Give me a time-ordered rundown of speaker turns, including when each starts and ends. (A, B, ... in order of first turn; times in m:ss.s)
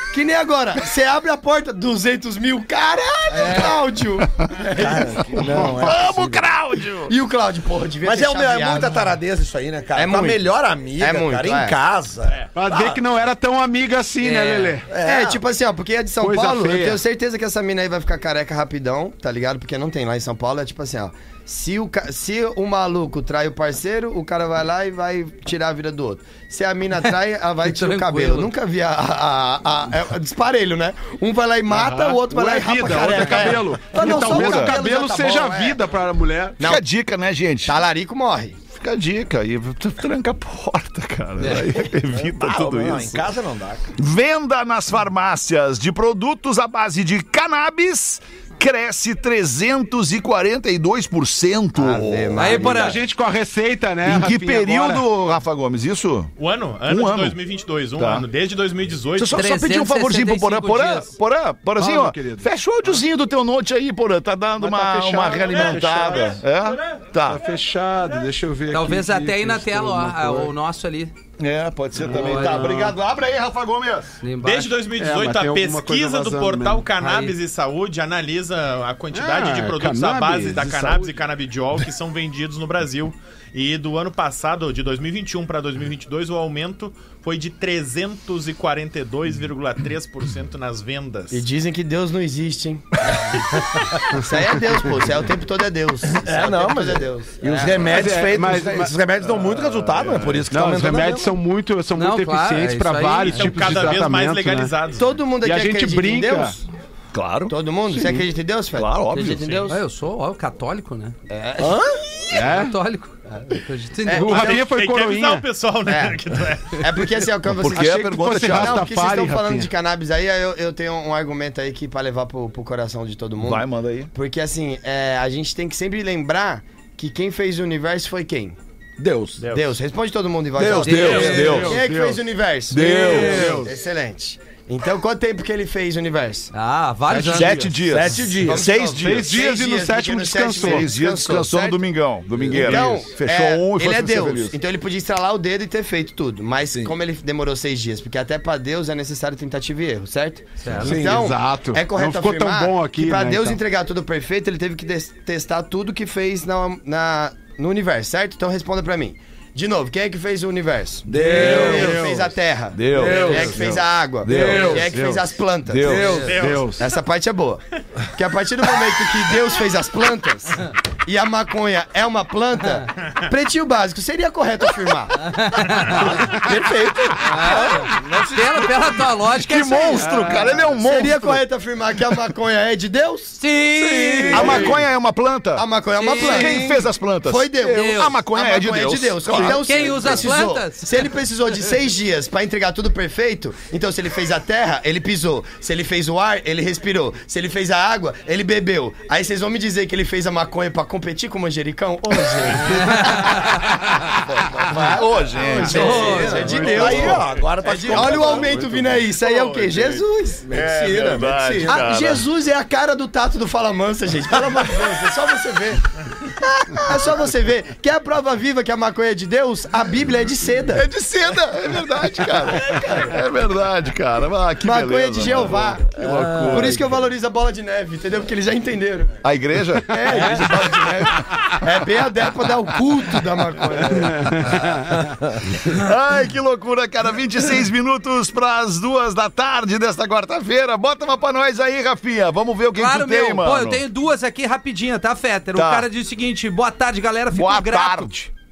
0:00.1-0:05.5 A
0:03.4-0:03.6 B
0:04.5-0:07.1 C
0:04.7-0:06.5 B
0:05.4-0:06.0 D
0:07.1-0:09.0 A
0:08.0-0:13.0 B
0:09.9-0:10.4 A
0:11.0-0:11.8 A
0:12.5-0:14.9 D
0:14.2-0:14.8 E
0:14.8-0:15.4 B
0:15.0-0:35.8 A
0:16.2-0:17.0 D
0:27.6-0:28.5 E
0:31.7-0:36.6 D
0:34.0-0:34.8 C
0:36.6-0:36.8 A
0:36.6-0:37.8 C
0:37.6-0:38.6 A
0:38.7-0:43.3 C
0:42.2-0:43.9 B
0:44.0-0:52.5 C
0:51.8-0:53.0 A
0:52.4-0:53.0 E
0:52.5-0:55.0 D
0:54.0-0:56.3 C
0:56.4-0:59.4 F
0:56.9-0:57.4 C
0:58.0-0:58.3 C
0:59.2-1:07.4 C
0:59.3-1:01.1 E
1:01.8-1:02.4 D
1:04.6-1:06.4 D
1:07.2-1:10.5 D
1:08.7-1:11.1 E
1:11.4-1:14.2 C
1:12.0-1:12.8 D
1:12.1-1:12.9 E
1:14.2-1:14.8 E
1:14.4-1:31.4 F
1:15.0-1:16.9 D
1:17.0-1:17.3 E
1:19.1-1:21.1 D
1:31.3-1:33.4 A
1:34.1-1:37.9 A
1:36.2-1:41.4 B
1:37.9-1:38.9 D
1:40.5-1:44.7 D
1:42.0-1:43.6 E
1:43.2-1:45.1 F
1:45.0-1:46.6 A
1:45.4-1:46.6 D
1:47.1-1:47.5 C
1:47.5-1:49.8 A
1:48.0-1:48.2 D
1:48.7-1:49.7 C
1:49.7-1:51.1 E
1:51.3-1:51.8 A
1:51.6-1:52.0 B
1:52.3-1:52.8 D
1:52.3-1:54.5 E
1:54.1-1:54.6 A
1:54.1-1:55.4 D
1:54.3-1:57.1 F
1:55.9-1:56.2 A
1:56.8-2:08.6 A
1:57.5-1:58.9 C
1:57.7-1:59.7 D
2:03.4-2:04.1 C
2:09.0-2:09.4 B
2:09.4-2:09.7 F
2:09.5-2:16.5 A
2:10.6-2:11.7 B
2:10.8-2:11.8 C
2:10.8-2:11.7 E
2:11.3-2:12.2 D
2:12.7-2:13.6 C
2:12.8-2:13.6 B
2:12.8-2:13.6 E
2:13.3-2:13.7 D
2:16.5-2:17.7 E
2:17.1-2:17.6 D
2:17.2-2:19.4 C
2:17.8-2:18.7 B
2:18.4-2:21.9 A
2:19.0-2:20.9 D
2:20.6-2:24.6 C
2:22.5-2:47.6 A
2:30.6-2:30.9 E
2:30.8-2:31.3 B
2:30.8-2:33.6 D
2:41.1-2:42.1 B
2:41.2-2:42.3 D
2:42.7-2:43.8 C
2:42.9-2:45.0 B
2:43.0-2:43.6 D
2:44.3-2:45.3 D
2:44.3-2:44.6 C
2:45.7-2:46.1 C
2:45.8-2:46.4 B
2:45.9-2:46.8 D
2:46.1-2:46.8 F
2:48.1-2:55.3 A
2:55.2-2:56.2 E
2:56.2-2:58.4 B
2:57.2-3:00.3 E
2:59.2-3:01.4 C
3:00.1-3:00.6 D
3:00.8-3:03.4 A
3:03.4-3:04.7 E
3:03.8-3:04.7 B
3:04.3-3:04.8 A
3:04.3-3:10.2 C
3:05.6-3:23.6 A
3:06.0-3:06.6 E
3:07.6-3:08.1 E
3:09.3-3:11.1 E
3:22.8-3:23.6 E
3:24.5-3:28.7 B
3:24.6-3:25.0 A
3:24.7-3:27.2 C
3:25.5-3:30.5 A
3:25.6-3:26.6 E
3:26.5-3:27.0 D
3:27.9-3:28.4 C
3:28.5-3:29.0 D
3:29.2-3:32.3 C
3:30.5-3:31.8 B
3:31.6-3:35.5 A
3:34.8-3:35.8 B
3:36.4-3:40.9 A
3:40.7-3:47.0 C
3:42.7-3:43.1 A
3:44.6-3:49.1 A
3:46.2-3:46.5 B
3:49.2-3:50.9 C
3:49.9-3:54.7 A
3:50.1-3:50.4 B
3:54.3-3:54.6 D
3:55.6-4:03.8 C
4:02.8-4:08.1 E
4:05.6-4:05.9 C
4:07.3-4:08.3 C